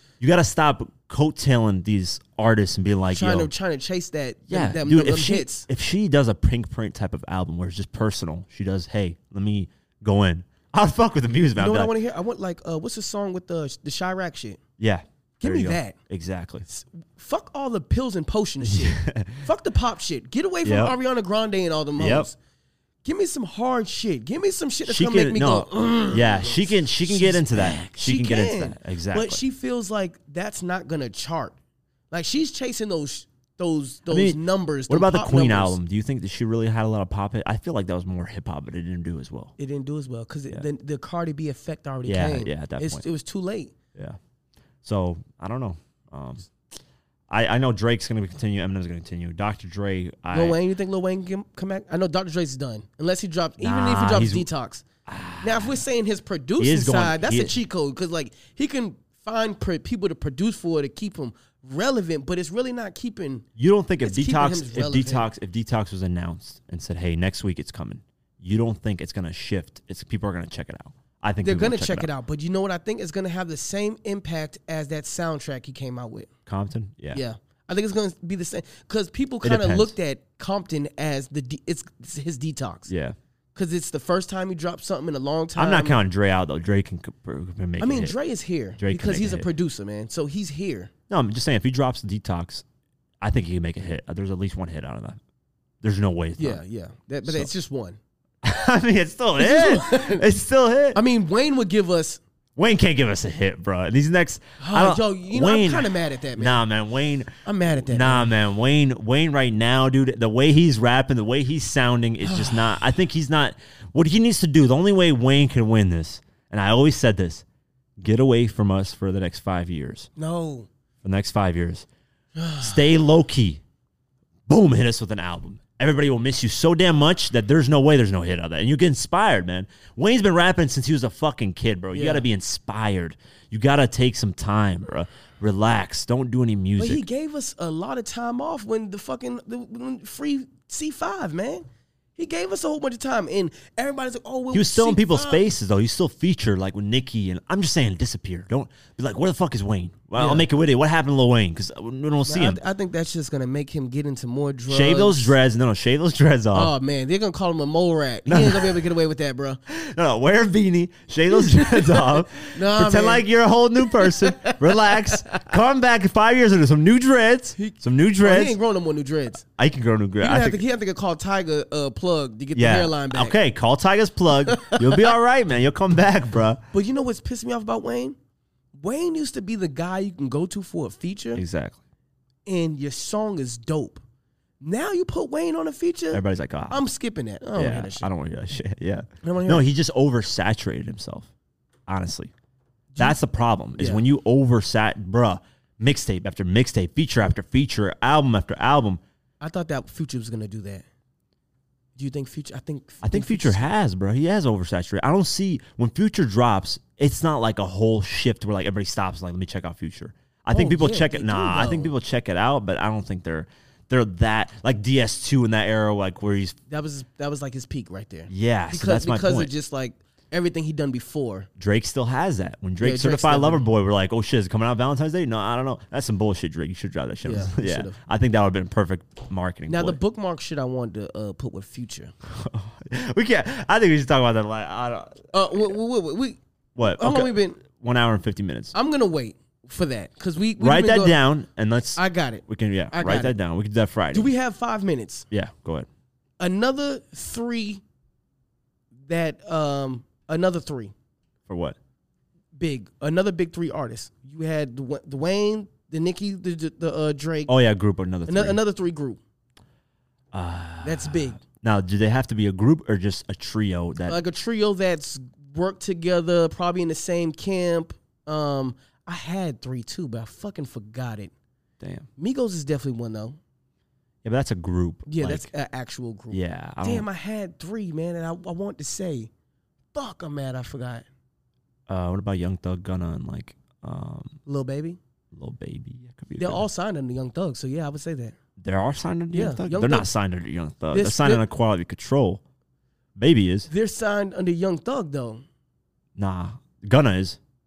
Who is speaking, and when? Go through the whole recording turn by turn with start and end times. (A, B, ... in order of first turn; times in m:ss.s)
0:00.2-0:03.5 A
0:03.1-0:05.6 B
0:04.5-0:11.9 A
0:11.6-0:14.6 B
0:14.8-0:16.6 A
0:15.4-0:16.0 B
0:16.7-0:22.4 B
0:18.7-0:19.4 A
0:20.6-0:20.9 A
0:22.0-0:22.3 A
0:23.0-0:31.6 B
0:24.8-0:29.4 A
0:32.1-0:35.8 B
0:34.1-0:39.5 A
0:39.6-0:43.7 B
0:42.0-0:43.0 A
0:44.8-0:46.5 A
0:47.3-0:50.6 A
0:50.3-0:54.8 B
0:53.6-0:54.5 A
0:55.1-0:55.8 A
0:55.4-1:03.5 B
0:56.6-0:57.6 A
1:03.6-1:12.1 A
1:04.0-1:05.3 B
1:11.4-1:16.3 B
1:16.5-1:17.2 A
1:17.1-1:22.9 B
1:19.4-1:19.9 A
1:22.9-1:23.2 A
1:23.5-1:26.0 B
1:25.6-1:28.1 A
1:27.8-1:30.9 B
1:28.8-1:29.5 A
1:31.1-1:32.6 A
1:33.2-1:35.2 A
1:35.8-1:36.6 A
1:36.4-1:38.0 B
1:37.2-1:37.5 A
1:38.4-1:41.0 A
1:39.4-1:40.2 B
1:40.9-1:42.2 B
1:42.6-1:57.4 A
1:44.6-1:46.6 B
1:47.4-1:48.3 B
1:52.2-1:52.7 B
1:58.0-2:00.1 A
2:00.2-2:00.7 B
2:01.0-2:01.8 A
2:02.4-2:02.8 B
2:02.6-2:03.6 A
2:04.5-2:17.0 A
2:11.9-2:12.2 B
2:16.8-2:21.6 B
2:22.2-2:25.4 B
2:24.5-2:32.6 A
2:30.2-2:30.5 B
2:32.2-2:35.4 B
2:34.7-2:36.7 A
2:36.5-2:39.6 B
2:38.3-2:38.8 A
2:39.7-2:48.6 A
2:41.3-2:43.2 B
2:43.8-2:45.1 B
2:47.6-2:49.4 B
2:49.6-2:50.6 A
2:50.2-2:53.4 B
2:52.5-2:56.6 A
2:54.5-2:55.1 B
2:56.7-2:58.2 B
2:58.8-3:01.4 B
3:01.3-3:01.8 A
3:02.4-3:04.0 B
3:04.6-3:08.1 B
3:06.1-3:06.8 A
3:07.6-3:11.3 A
3:09.2-3:09.7 B
3:11.9-3:12.3 A
3:13.0-3:19.0 A
3:13.8-3:14.0 B
3:19.4-3:20.8 B
3:22.0-3:23.6 B
3:23.0-3:36.6 A
3:30.5-3:31.9 B
3:36.7-3:41.5 B
3:38.3-3:39.5 A
3:41.6-3:50.0 A
3:42.8-3:43.6 B
3:47.2-3:48.0 B
3:49.7-3:52.1 B
3:52.2-3:55.7 A
3:55.3-3:57.6 B
3:56.8-3:58.7 A
3:58.7-4:01.2 B
4:00.6-4:04.3 A
4:02.0-4:03.3 B
4:04.1-4:05.2 B
4:05.3-4:05.9 A
4:06.4-4:07.8 B
4:09.0-4:10.9 B
4:11.5-4:11.8 A
4:12.6-4:17.5 B
4:17.5-4:18.6 A
4:18.3-4:19.2 B
4:20.3-4:24.2 A
4:20.8-4:21.4 B
4:24.0-4:31.3 B
4:31.8-4:32.1 A
4:32.2-4:33.4 B
4:34.2-4:35.5 A
4:35.1-4:39.3 B
4:36.3-4:37.1 A
4:39.9-4:41.0 B
4:41.9-4:44.4 A
4:44.4-4:45.0 B
4:45.3-4:46.6 A
4:46.4-4:48.4 B
4:48.6-4:52.4 A
4:49.3-4:50.1 B
4:50.9-4:51.4 B
4:53.2-4:53.7 A
4:53.7-4:55.4 B
4:56.2-4:57.4 A